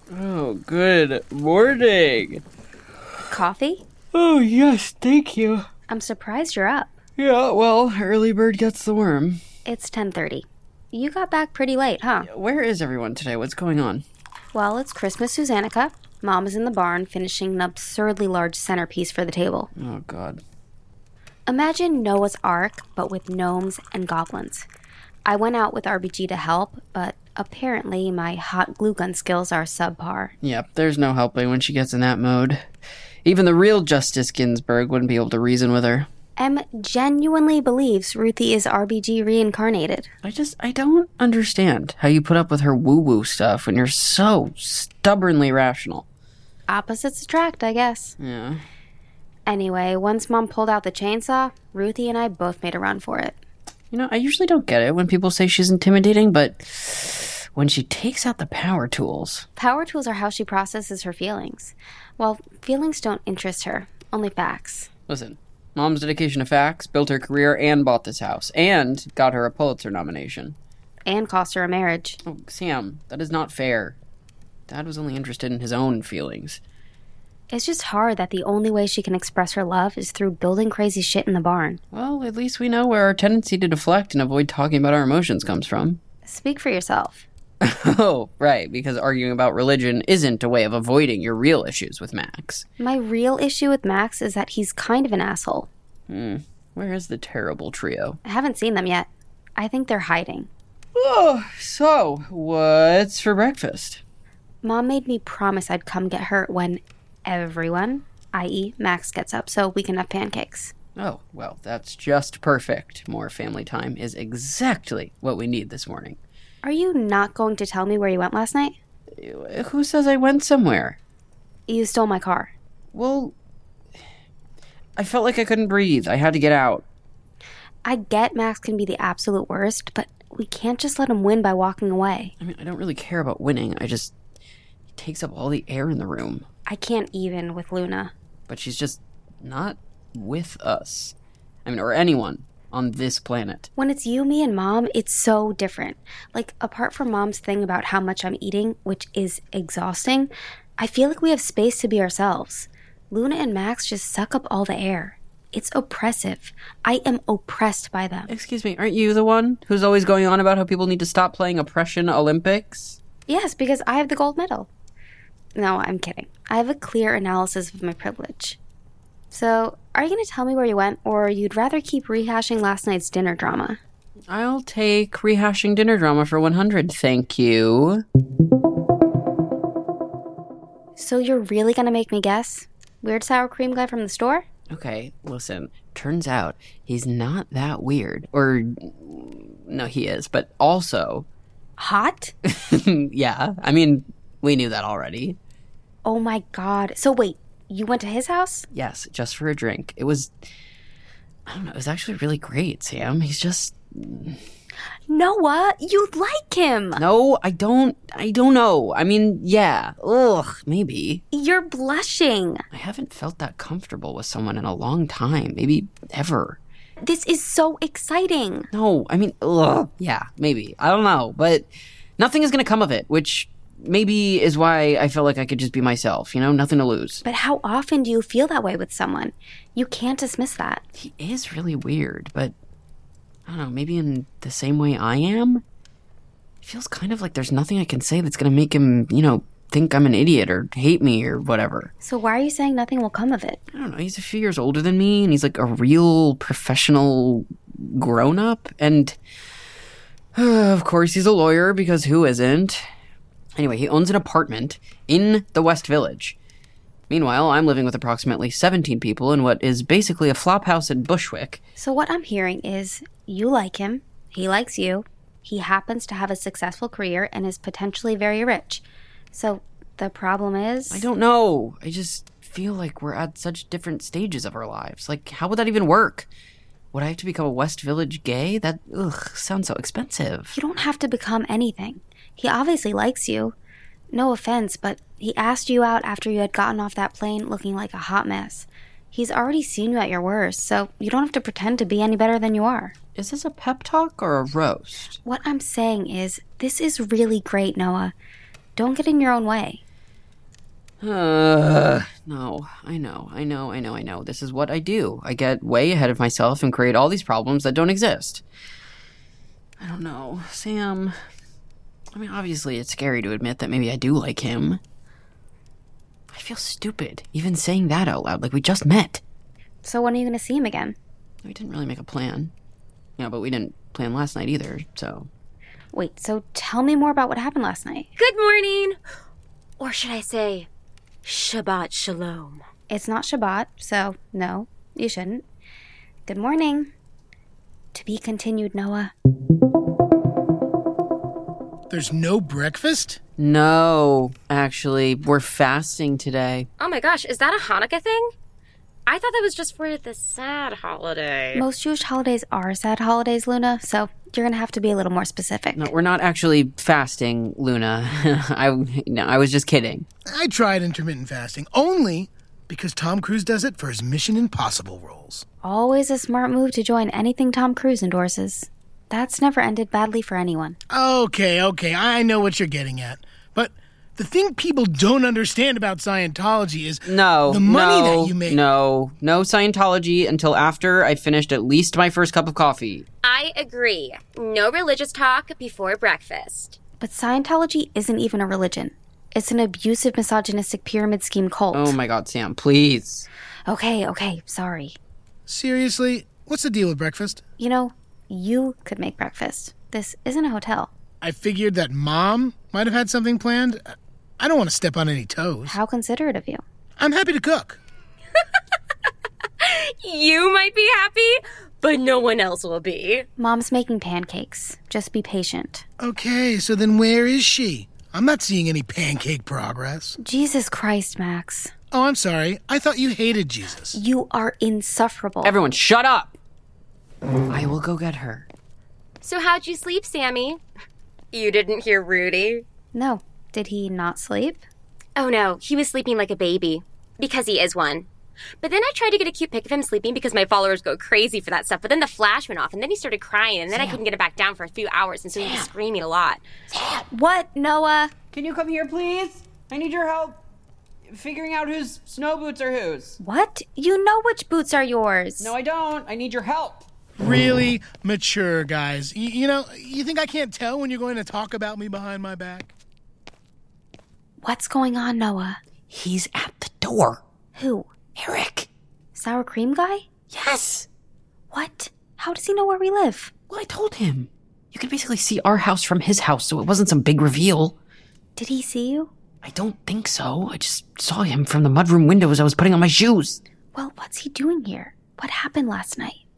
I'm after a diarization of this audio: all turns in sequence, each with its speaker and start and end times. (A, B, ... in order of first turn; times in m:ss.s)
0:00.1-0:02.4 A
0:03.3-0:03.8 B
0:04.1-0:05.7 A
0:05.9-0:06.9 B
0:07.2-0:09.4 A
0:09.6-0:12.3 B
0:12.2-0:14.0 A
0:14.5-0:19.7 B
0:19.8-0:20.4 A
0:21.5-0:24.7 B
0:25.2-0:30.3 B
0:30.4-0:32.6 A
0:33.2-0:36.1 A
0:36.4-0:40.1 B
0:40.2-0:46.0 A
0:46.7-0:48.2 B
0:48.2-0:48.6 A
0:49.5-0:53.4 B
0:53.9-0:59.4 A
0:59.6-1:04.9 B
1:05.1-1:10.6 A
1:11.0-1:12.2 B
1:12.2-1:14.0 A
1:14.7-1:16.6 A
1:17.5-1:21.8 B
1:21.9-1:26.0 A
1:26.2-1:27.2 B
1:27.6-1:32.6 A
1:32.8-1:35.7 B
1:36.1-1:38.2 A
1:38.2-1:40.5 B
1:40.9-1:44.0 A
1:44.6-1:50.7 B
1:51.0-1:56.2 A
1:56.6-1:58.7 B
1:59.2-2:01.0 A
2:01.7-2:02.5 B
2:02.9-2:03.3 A
2:05.0-2:06.8 A
2:07.8-2:12.3 B
2:12.4-2:14.1 A
2:15.0-2:16.4 A
2:16.7-2:18.1 B
2:18.5-2:21.1 A
2:21.6-2:23.7 A
2:23.8-2:38.3 B
2:38.3-2:43.0 A
2:43.3-2:44.7 B
2:45.6-2:48.6 B
2:49.3-2:53.8 B
2:54.3-2:58.0 A
3:01.0-3:04.4 B
3:04.7-3:11.3 A
3:11.8-3:12.3 B
3:12.4-3:15.4 A
3:16.0-3:18.7 B
3:18.7-3:20.3 A
3:21.5-3:24.4 A
3:25.1-3:27.0 B
3:27.0-3:31.2 A
3:31.3-3:32.6 B
3:32.7-3:36.6 A
3:37.0-3:38.7 B
3:38.7-3:47.2 A
3:47.2-3:50.8 B
3:51.0-3:52.5 A
3:53.4-3:55.6 A
3:56.6-4:01.9 A
4:02.0-4:03.6 B
4:03.7-4:09.2 A
4:10.3-4:12.8 A
4:13.6-4:16.4 A
4:17.1-4:21.6 A
4:21.8-4:31.1 B
4:30.9-4:36.3 A
4:36.9-4:40.5 A
4:40.5-4:43.5 B
4:44.1-4:52.9 B
4:53.2-4:55.2 A
4:55.2-4:58.1 B
4:58.8-4:59.8 B
5:01.0-5:08.4 A
5:09.8-5:11.2 A
5:12.1-5:14.8 A
5:16.3-5:19.2 A
5:19.8-5:21.0 B
5:21.4-5:22.5 A
5:23.2-5:25.3 A
5:25.9-5:28.1 B
5:28.2-5:29.0 C
5:29.8-5:30.7 C
5:31.2-5:32.6 C
5:32.9-5:35.4 B
5:36.3-5:36.9 B
5:37.9-5:39.1 B
5:41.9-5:43.2 D
5:43.4-5:46.7 A
5:46.8-5:48.3 C
5:49.1-5:51.6 C
5:51.5-5:55.9 B
5:55.8-6:00.0 A
6:00.3-6:05.4 D
6:05.6-6:10.8 B
6:10.9-6:18.6 D
6:17.0-6:23.1 A
6:23.2-6:26.8 C
6:27.0-6:32.0 B
6:31.7-6:33.3 A
6:33.7-6:35.0 B
6:35.5-6:37.4 D
6:37.6-6:40.9 B
6:41.2-6:45.8 D
6:45.6-6:46.6 B
6:47.0-6:47.8 D
6:49.6-6:53.2 C
6:53.4-6:55.8 B
6:56.0-7:00.2 D
7:00.2-7:01.7 B
7:01.9-7:04.0 D
7:03.9-7:05.5 B
7:05.4-7:06.4 A
7:07.5-7:08.5 A
7:09.2-7:10.6 C
7:11.3-7:12.6 C
7:12.9-7:14.6 B
7:15.2-7:18.1 C
7:18.6-7:26.4 C
7:23.7-7:24.0 A
7:25.3-7:25.7 A
7:26.7-7:27.0 A
7:27.1-7:28.1 B
7:28.3-7:30.4 A
7:31.1-7:33.2 A
7:33.2-7:35.5 B
7:35.4-7:36.9 A
7:37.2-7:42.7 D
7:44.4-7:45.6 B
7:45.9-7:47.2 A
7:47.5-7:47.9 B
7:48.2-7:48.7 A
7:49.1-7:50.0 B
7:50.3-7:50.9 A
7:51.5-7:53.3 B
7:53.5-7:57.8 A
7:58.4-7:59.1 B
7:59.4-8:03.4 A
8:03.7-8:06.2 B